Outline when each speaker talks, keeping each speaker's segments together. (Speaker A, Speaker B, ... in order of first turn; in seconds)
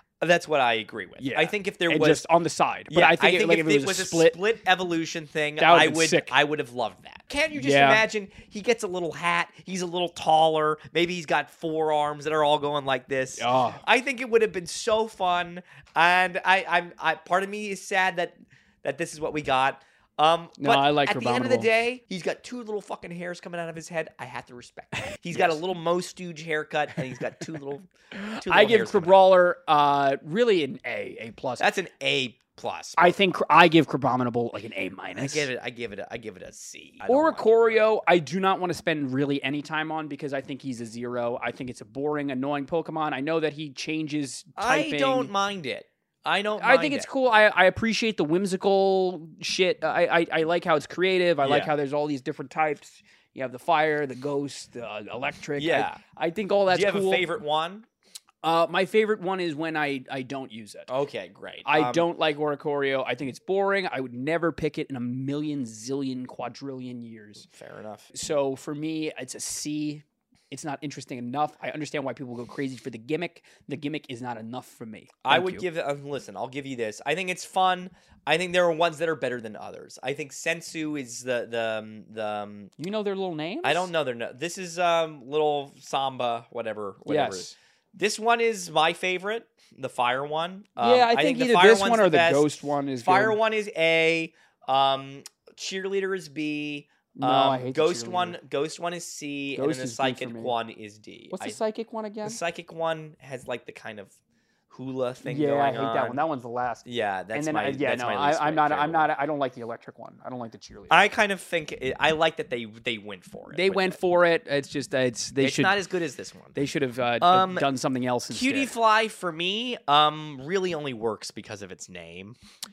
Speaker A: 0.2-2.3, 2.9-29.2, 31.6-33.2, 35.1-37.9, 44.6-47.1, 51.4-51.7, 55.6-56.0, 56.7-57.9, 60.9-62.1, 67.5-68.1, 75.2-82.7, 83.6-101.6, 102.2-104.1, 104.7-106.2, 106.8-109.1, 110.9-114.0, 115.4-116.6, 117.2-117.7, 118.3-122.4
Speaker B: 1.2-4.4, 5.6-6.4, 7.5-8.0, 13.4-13.8, 20.6-21.7, 25.3-25.6, 28.3-31.7, 33.0-35.5, 37.0-45.3, 46.6-57.2, 58.4-60.9, 61.6-67.5, 68.1-75.7, 82.8-83.9, 87.1-87.5, 90.8-93.4, 97.2-98.4, 99.5-100.5, 101.3-102.4, 105.2-111.0, 113.5-115.8, 116.5-118.7